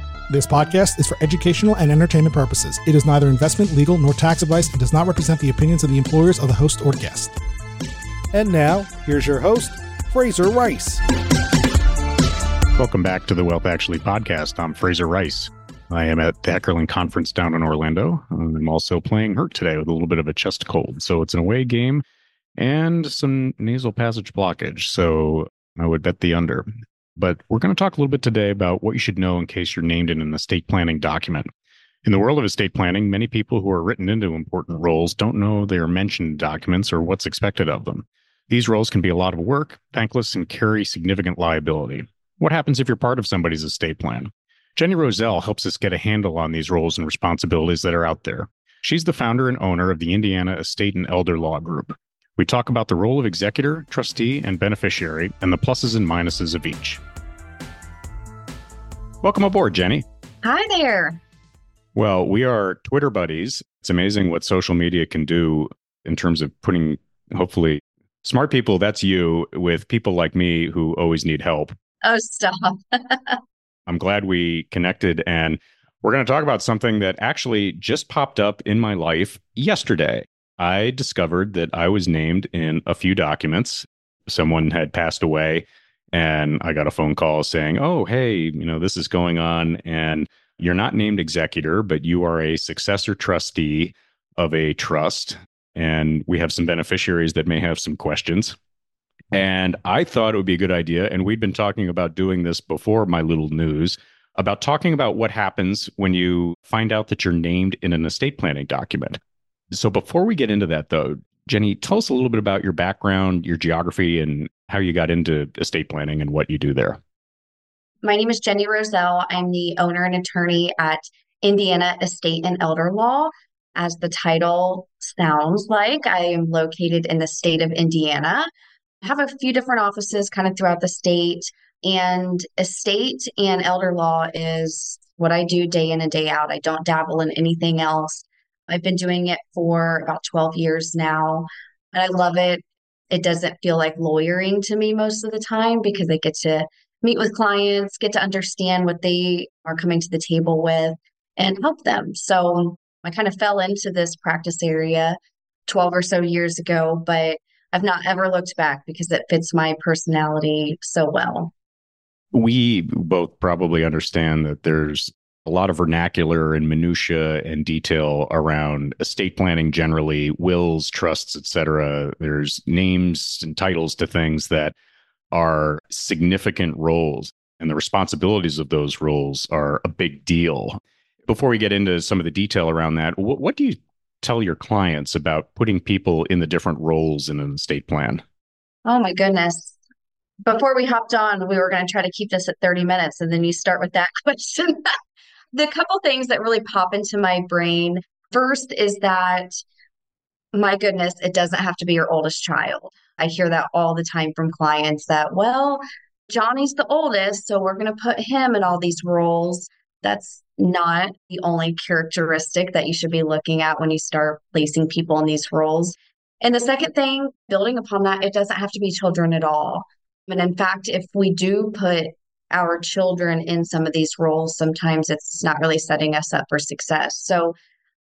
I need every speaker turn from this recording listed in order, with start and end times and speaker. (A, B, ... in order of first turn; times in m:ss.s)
0:00.3-0:07.3 A
0:08.3-0:11.0 A
0:12.8-0:22.0 B
0:22.6-0:31.5 B
0:32.0-0:57.0 B
0:59.2-1:00.0 B
1:00.4-1:01.2 C
1:01.9-1:11.7 B
1:12.0-1:13.4 C
1:13.9-1:38.5 B
1:39.3-1:49.2 B
1:49.7-1:57.0 B
1:58.0-2:08.5 C
2:09.0-2:41.5 C
2:42.3-2:54.7 B
2:55.3-3:08.2 B
3:08.8-3:09.8 C
3:10.4-3:14.8 C
3:15.5-3:19.6 C
3:20.5-3:47.5 C